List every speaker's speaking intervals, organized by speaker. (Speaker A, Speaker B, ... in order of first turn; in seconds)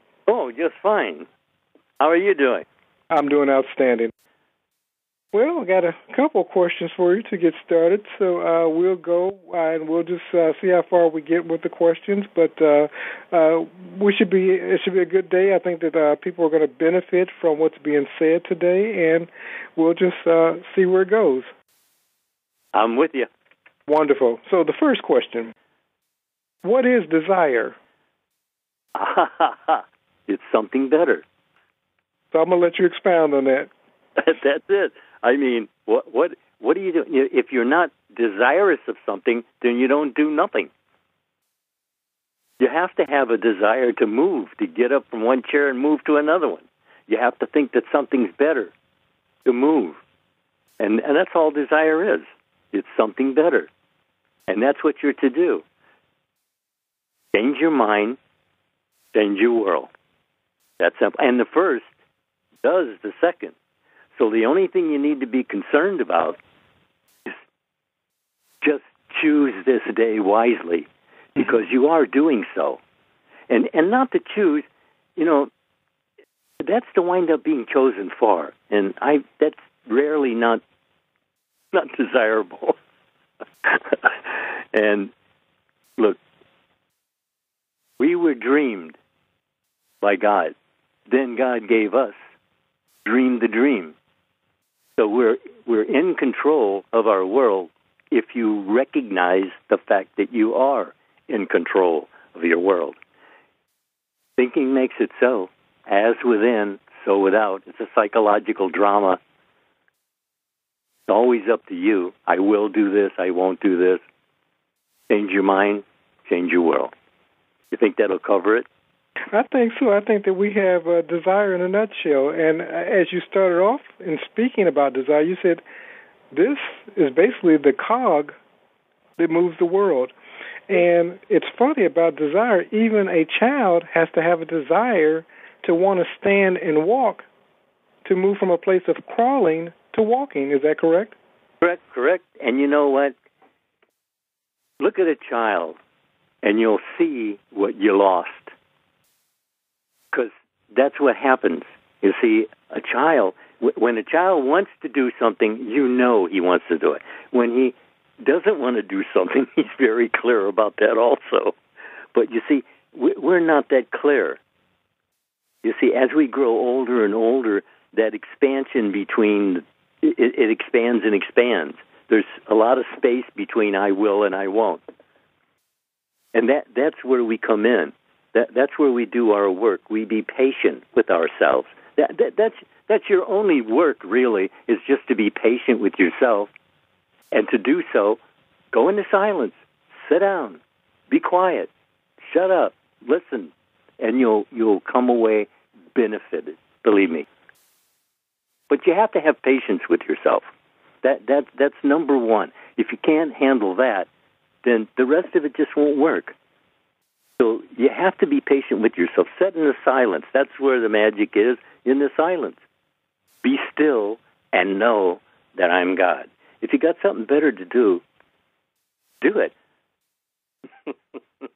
Speaker A: 0.3-1.2, 2.0-2.6, 22.7-23.3, 28.9-31.2, 34.2-40.7, 42.6-48.7, 49.4-50.0, 50.8-53.7, 54.5-55.6, 57.3-58.2, 59.1-59.9, 60.8-61.9, 62.6-63.5, 64.1-66.4, 68.6-72.8, 73.5-75.5, 76.6-80.6, 81.7-82.8, 83.6-85.1, 88.0-89.0, 90.0-90.5, 91.1-92.1, 93.0-94.0, 95.0-103.0, 104.4-109.2, 111.1-114.0, 115.1-116.9, 117.7-118.7, 141.6-143.1, 144.8-145.8, 146.4-148.5, 150.1-161.6, 162.1-164.4, 165.6-174.8, 176.3-186.5, 187.3-188.2, 188.7-191.7, 192.3-197.2, 198.7-200.4, 201.0-204.1, 204.6-206.3, 207.4-212.6, 213.4-218.0, 219.2-219.5
Speaker B: 3.1-4.1, 5.3-21.5, 23.9-25.5, 26.6-27.8, 32.3-33.7, 119.3-125.6, 126.3-128.4, 129.2-130.1, 130.7-137.3, 138.0-141.2